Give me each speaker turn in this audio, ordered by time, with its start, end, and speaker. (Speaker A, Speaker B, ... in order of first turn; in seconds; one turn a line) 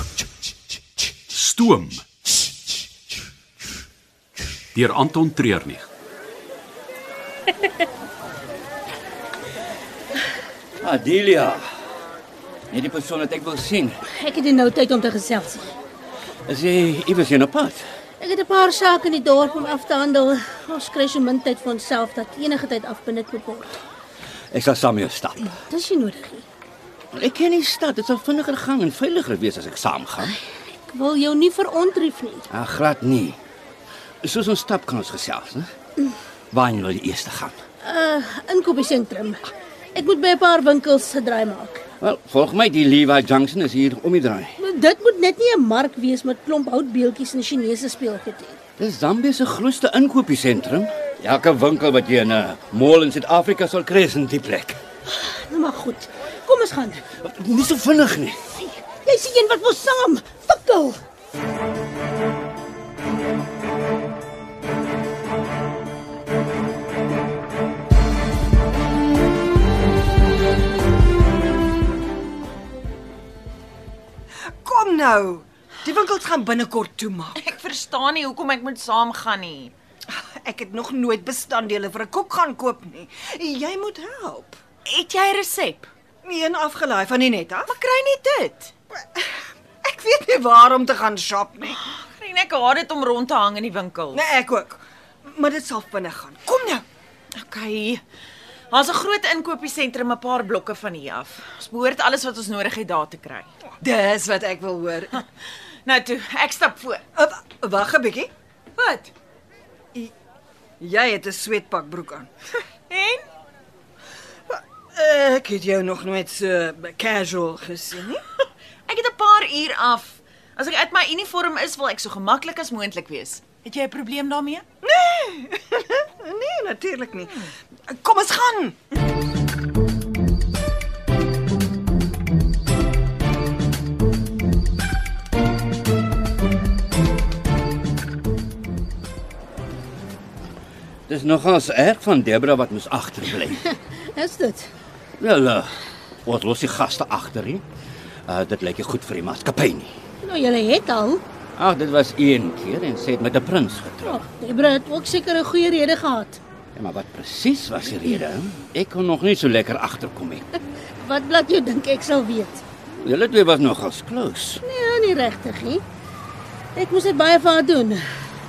Speaker A: 1.3-2.0
Speaker A: 4.7-5.9
Speaker B: 10.8-11.6
Speaker B: 12.7-13.9
Speaker C: 14.1-15.7
Speaker B: 16.4-17.8
Speaker C: 18.2-23.7
Speaker B: 24.5-25.5
Speaker C: 25.5-26.4
Speaker B: 27.1-30.4
Speaker C: 30.2-32.5
Speaker B: 32.5-33.4
Speaker B: 34.2-35.7
Speaker B: 36.5-37.6
Speaker C: 37.8-39.4
Speaker C: 39.9-41.8
Speaker B: 42.0-44.5
Speaker C: 44.6-48.6
Speaker B: 48.8-54.8
Speaker C: 55.0-57.0
Speaker B: 57.2-58.5
Speaker C: 58.8-61.0
Speaker D: 74.6-77.5
Speaker E: 77.3-79.7
Speaker D: 80.1-84.6
Speaker E: 84.8-85.9
Speaker D: 86.2-87.7
Speaker E: 87.7-88.7
Speaker D: 89.0-91.8
Speaker E: 91.8-94.2
Speaker D: 94.1-96.8
Speaker E: 97.3-98.0
Speaker E: 98.7-103.5
Speaker D: 103.8-105.2
Speaker E: 105.8-107.0
Speaker D: 107.1-108.3
Speaker E: 108.8-109.1
Speaker D: 110.8-112.3
Speaker E: 112.9-113.2
Speaker D: 114.5-118.2
Speaker E: 118.9-124.6
Speaker D: 124.8-128.8
Speaker B: 141.1-143.6
Speaker C: 143.8-144.7
Speaker B: 145.2-147.6
Speaker B: 148.3-149.9
Speaker C: 150.2-151.2
Speaker B: 151.6-154.2
Speaker C: 154.0-156.4
Speaker B: 156.8-160.5
Speaker C: 161.0-162.6
Speaker B: 163.0-164.6
Speaker C: 164.6-165.8
Speaker C: 166.7-168.0